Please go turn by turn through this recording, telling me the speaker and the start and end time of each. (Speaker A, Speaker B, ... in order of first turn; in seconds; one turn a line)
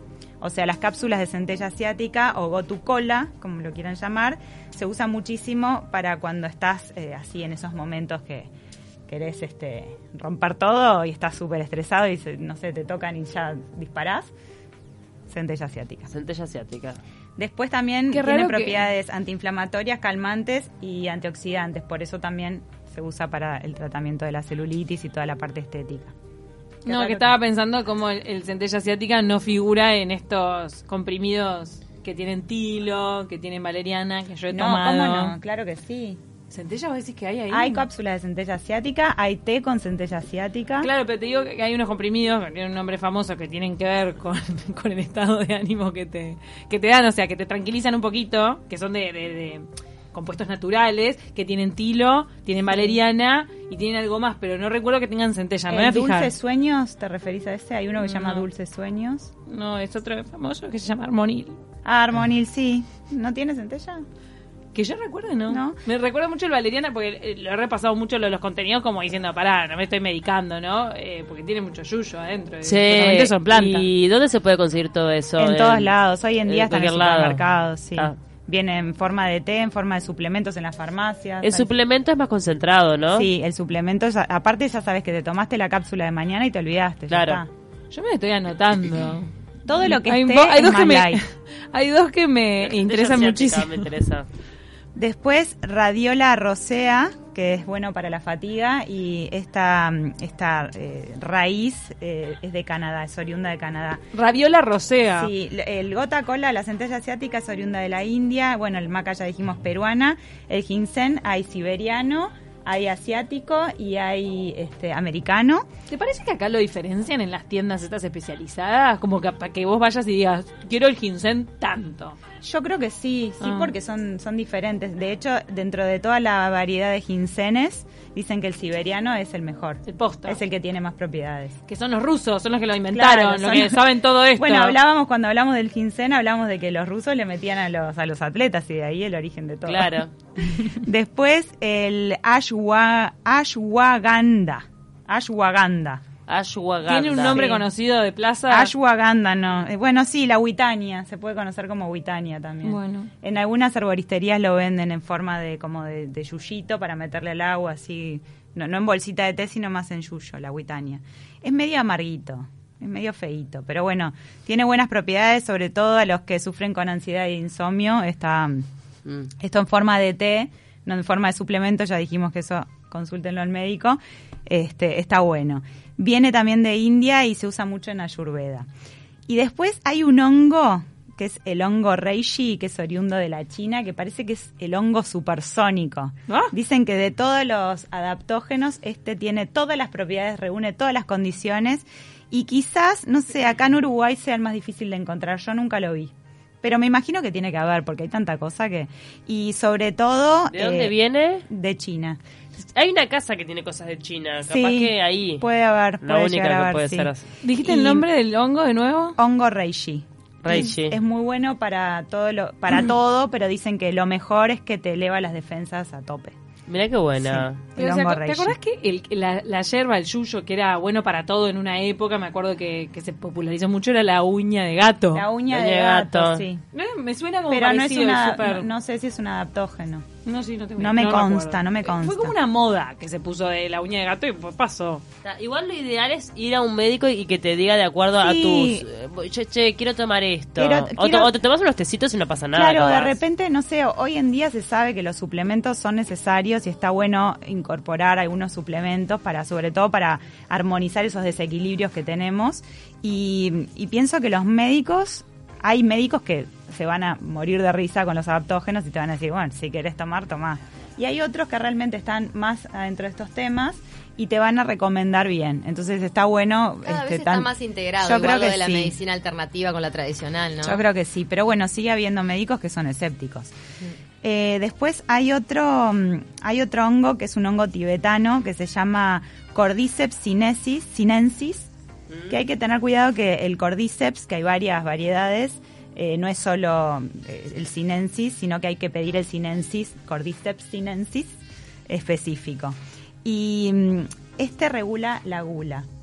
Speaker A: 0.4-8.5
Speaker A: 9.1-14.3
Speaker A: 15.3-16.1
Speaker B: 16.1-17.0
Speaker A: 17.4-26.1
Speaker C: 18.1-18.8
Speaker A: 26.8-27.4
Speaker C: 26.9-35.4
Speaker A: 34.5-36.2
Speaker C: 36.5-37.8
Speaker A: 37.5-40.9
Speaker C: 40.8-56.3
Speaker A: 55.7-59.3
Speaker C: 58.0-58.5
Speaker C: 59.5-61.5
Speaker A: 61.8-64.0
Speaker C: 64.7-73.8
Speaker A: 65.5-65.8
Speaker B: 72.6-75.9
Speaker A: 75.4-81.7
Speaker B: 76.5-77.4
Speaker B: 81.4-83.3
Speaker A: 83.1-87.5
Speaker B: 87.1-87.4
Speaker C: 87.9-93.8
Speaker A: 89.7-91.2
Speaker B: 92.6-94.3
Speaker A: 95.0-104.0
Speaker C: 104.1-105.3
Speaker A: 105.1-115.7
Speaker C: 115.9-122.2
Speaker A: 122.4-131.6
Speaker C: 123.4-123.7
Speaker C: 129.8-130.4
Speaker C: 131.7-134.8
Speaker A: 132.9-133.8
Speaker A: 134.3-140.0
Speaker B: 139.7-140.1
Speaker A: 140.6-146.0
Speaker B: 146.3-147.4
Speaker C: 146.8-148.7
Speaker A: 147.2-147.7
Speaker A: 148.5-168.7
Speaker C: 152.6-153.1
Speaker A: 169.3-178.7
Speaker A: 179.3-202.2
Speaker C: 186.3-186.5
Speaker B: 200.5-201.4
Speaker B: 202.6-205.4
Speaker A: 204.4-208.1
Speaker B: 206.0-207.2
Speaker C: 207.4-209.2
Speaker A: 209.2-216.3
Speaker B: 210.4-211.0
Speaker B: 216.7-217.6
Speaker A: 217.2-218.6
Speaker C: 217.8-225.2
Speaker A: 225.1-226.6
Speaker B: 225.5-226.4
Speaker C: 226.7-228.7
Speaker A: 227.5-230.1
Speaker C: 230.2-235.0
Speaker A: 230.8-232.3
Speaker B: 235.2-243.2
Speaker A: 238.2-238.8
Speaker A: 240.6-241.3
Speaker A: 242.5-269.0
Speaker D: 266.8-270.8
Speaker A: 270.6-273.5
Speaker A: 274.2-281.7
Speaker B: 282.1-282.4
Speaker A: 282.3-291.4
Speaker A: 291.9-295.9